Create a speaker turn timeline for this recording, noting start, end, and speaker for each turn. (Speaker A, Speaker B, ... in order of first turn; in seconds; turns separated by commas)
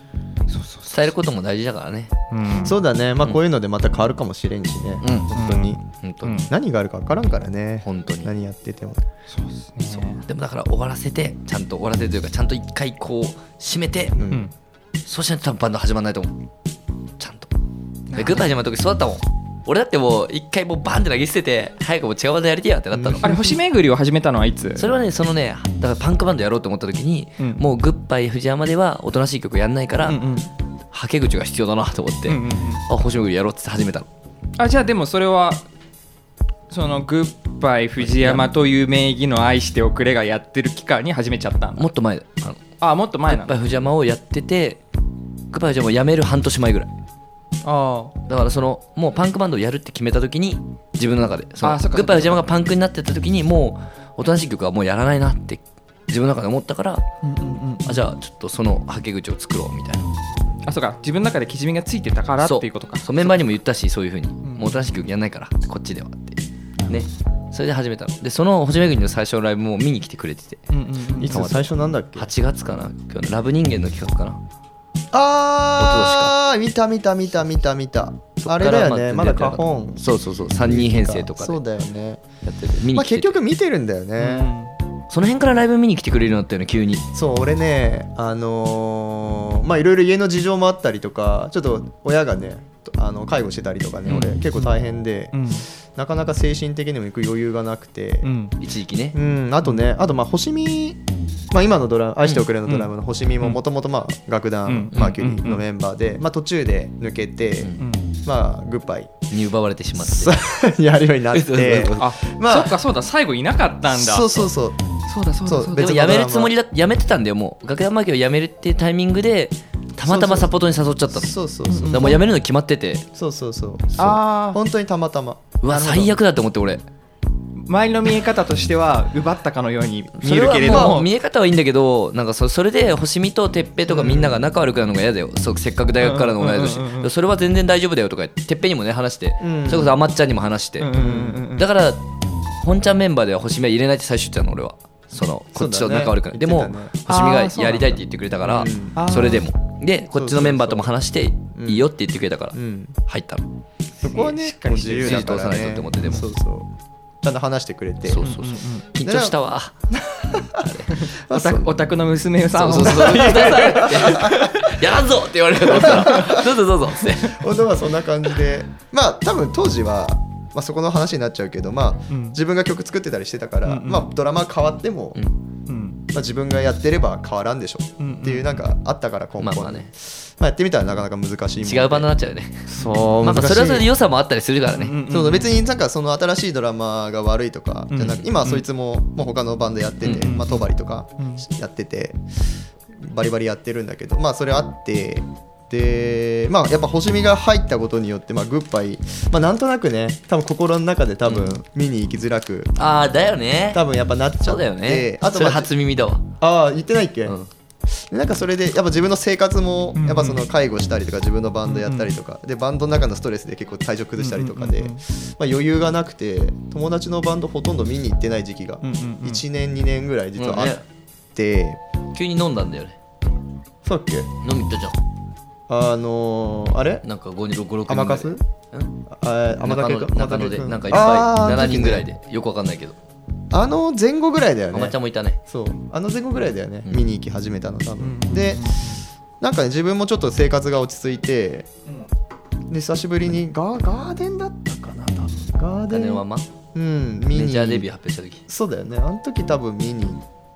Speaker A: 0.5-1.1, Speaker B: 0.9-2.1, Speaker A: 2.3-2.8, Speaker C: 2.6-5.8, Speaker B: 5.0-6.5, Speaker A: 5.3-6.5, Speaker C: 6.5-9.0, Speaker B: 7.8-8.3, Speaker A: 9.3-10.2, Speaker B: 9.9-14.2, Speaker C: 14.2-14.5, Speaker B: 15.1-16.4, Speaker B: 17.2-17.5, Speaker A: 18.1-18.5, Speaker B: 18.1-23.4, Speaker C: 22.9-23.4, Speaker A: 23.2-24.9, Speaker B: 24.8-30.2, Speaker A: 30.1-30.5, Speaker B: 30.9-34.1, Speaker A: 32.3-32.8, Speaker A: 34.6-35.6, Speaker A: 36.7-41.9, Speaker B: 38.0-38.5, Speaker B: 41.8-42.6, Speaker A: 42.8-43.5, Speaker B: 43.3-44.8, Speaker B: 45.5-46.9, Speaker A: 47.6-48.1, Speaker B: 48.3-57.0, Speaker A: 51.6-52.5, Speaker A: 57.2-58.0, Speaker B: 57.9-60.1, Speaker A: 60.6-63.3, Speaker B: 62.4-70.7, Speaker A: 64.4-64.9, Speaker A: 70.7-71.4, Speaker C: 71.2-72.3, Speaker B: 71.2-74.4, Speaker C: 75.1-80.0, Speaker B: 75.8-76.3, Speaker B: 78.4-81.6, Speaker C: 80.6-82.2, Speaker B: 82.4-83.4, Speaker C: 82.9-84.5, Speaker A: 84.2-84.8, Speaker B: 85.1-87.1, Speaker C: 87.1-98.3, Speaker A: 94.1-94.8, Speaker A: 95.3-95.7, Speaker A: 98.2-98.5, Speaker B: 98.6-99.2, Speaker C: 99.1-101.0, Speaker C: 101.5-107.7, Speaker A: 104.7-105.6, Speaker A: 107.8-108.1, Speaker C: 108.2-109.3, Speaker B: 109.3-110.4, Speaker C: 110.0-112.8, Speaker B: 111.3-112.1, Speaker A: 112.0-114.5, Speaker C: 113.9-114.8, Speaker A: 115.1-116.0, Speaker C: 115.5-116.5, Speaker B: 115.8-121.4, Speaker C: 120.0-120.5, Speaker C: 121.1-122.2, Speaker A: 121.7-122.2, Speaker B: 121.9-123.1, Speaker C: 123.2-126.2, Speaker A: 124.0-124.6, Speaker B: 125.6-126.8, Speaker A: 127.5-131.1, Speaker B: 130.2-141.0, Speaker C: 130.7-131.0, Speaker C: 133.9-134.5, Speaker A: 136.0-137.1, Speaker C: 139.4-140.0, Speaker A: 140.8-141.7, Speaker C: 141.0-141.4, Speaker B: 141.6-142.0, Speaker B: 142.6-153.4, Speaker C: 145.5-146.9, Speaker A: 147.1-148.0, Speaker C: 148.4-149.2, Speaker A: 149.0-149.5, Speaker C: 150.2-150.9, Speaker C: 151.5-151.9, Speaker C: 152.5-153.0, Speaker A: 154.0-155.3, Speaker C: 154.0-158.3, Speaker B: 155.0-156.3, Speaker B: 158.1-159.8, Speaker A: 158.2-158.9, Speaker C: 159.0-159.3, Speaker C: 159.9-160.7, Speaker B: 160.6-160.9, Speaker A: 160.9-164.5, Speaker C: 161.3-161.7, Speaker B: 162.6-167.5, Speaker C: 162.7-164.6, Speaker C: 165.7-175.2, Speaker A: 165.8-166.3, Speaker A: 172.1-172.4, Speaker A: 173.7-174.1, Speaker A: 175.7-176.0, Speaker C: 176.1-182.1, Speaker A: 178.0-178.6, Speaker B: 179.4-179.9, Speaker B: 181.6-182.7, Speaker C: 182.7-183.9, Speaker A: 182.8-183.2, Speaker B: 183.2-185.0, Speaker A: 184.7-185.5, Speaker C: 185.1-202.8, Speaker A: 187.9-188.7, Speaker B: 190.0-190.3, Speaker A: 190.1-190.6, Speaker A: 191.2-191.4, Speaker B: 201.3-201.6, Speaker B: 202.8-203.9, Speaker C: 203.7-205.7, Speaker B: 204.4-206.3, Speaker C: 206.4-207.4, Speaker C: 207.9-220.8, Speaker A: 210.0-210.4, Speaker A: 211.7-212.1, Speaker A: 214.2-215.0, Speaker A: 218.8-219.4, Speaker B: 220.4-220.8, Speaker C: 221.3-221.8, Speaker B: 222.1-223.0, Speaker C: 223.8-224.3, Speaker B: 224.4-225.0, Speaker C: 225.7-227.1, Speaker B: 227.0-228.9, Speaker C: 227.9-228.4, Speaker C: 229.1-232.1, Speaker B: 229.6-233.0, Speaker C: 233.5-238.8, Speaker B: 234.7-235.4, Speaker A: 238.0-239.1, Speaker C: 239.4-241.7, Speaker C: 242.7-247.9, Speaker B: 245.9-246.5, Speaker B: 247.3-248.4, Speaker C: 248.5-250.2